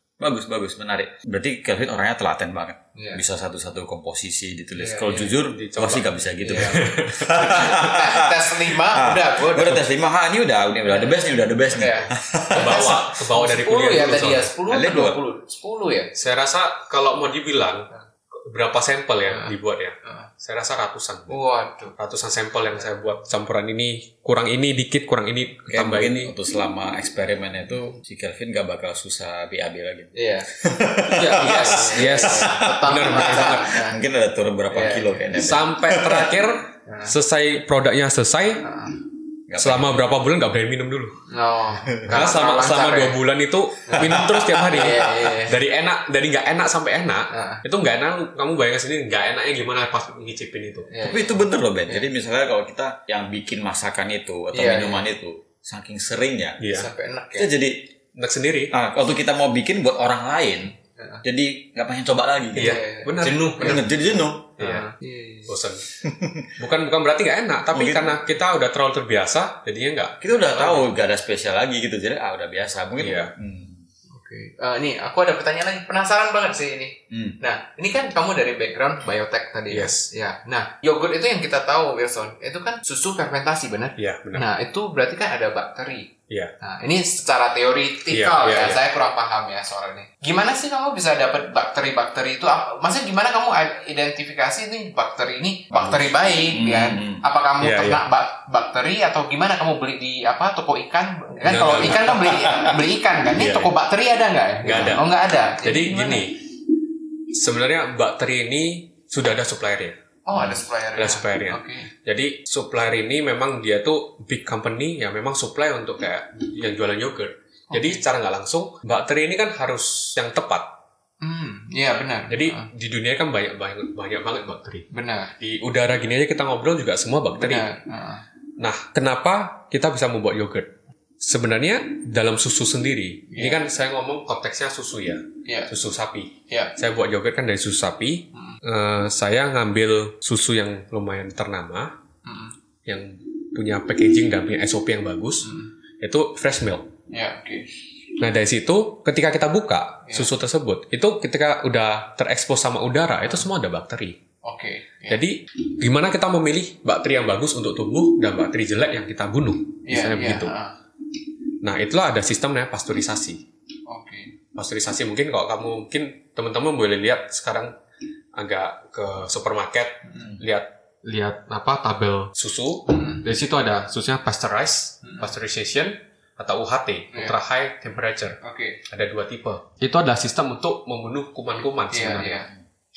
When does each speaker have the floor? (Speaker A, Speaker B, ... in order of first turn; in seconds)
Speaker A: 0.2-13.0, 14.7-15.2, 25.7-36.4, 39.5-40.1, 41.8-42.3, 44.0-45.1, 51.0-56.6, 57.3-57.8, 58.7-64.5, 66.0-66.5, 67.7-68.2, 70.2-73.8, 77.1-77.3, 96.5-97.2, 102.1-102.8
Speaker B: 3.0-3.2, 4.8-5.4, 6.4-6.8, 7.5-9.9, 10.9-16.1, 19.3-20.3, 21.3-21.9, 30.1-30.5, 31.3-34.0, 34.7-35.5, 36.9-37.1, 38.6-39.0, 41.3-43.2, 43.9-45.6, 47.3-47.6, 50.9-52.1, 54.5-55.1, 56.7-57.5, 61.0-61.2, 62.5-63.9, 64.6-65.5, 74.1-106.2, 110.2-111.9, 117.7-118.0, 121.2-122.7, 124.9-125.3, 127.3-128.2, 133.3-133.6, 135.4-135.7, 136.5-136.7, 142.2-142.5, 145.4-145.7, 147.1-147.7, 154.4-155.2, 159.8-160.7, 163.9-164.3, 170.1-170.4, 172.9-173.2, 175.0-175.3, 177.1-177.4, 178.4-178.8, 181.9-182.5
Speaker C: 5.3-8.0, 12.5-14.5, 16.1-17.9, 18.5-21.4, 22.0-26.3, 31.1-33.8, 35.4-38.7, 39.5-41.2, 42.1-50.9, 56.6-56.9, 58.2-58.7, 62.5-63.9, 64.6-64.9, 65.5-65.8, 66.5-70.8, 73.0-73.3, 79.7-80.1, 84.0-84.5, 88.1-88.8, 97.6-98.0, 101.5-102.2, 103.3-103.7, 104.6-105.0, 105.6-106.4, 107.3-120.7, 122.3-124.9, 125.4-127.7, 128.6-141.9, 142.9-146.9, 148.2-154.2, 155.1-160.5, 161.6-163.4, 164.5-167.7, 168.3-182.5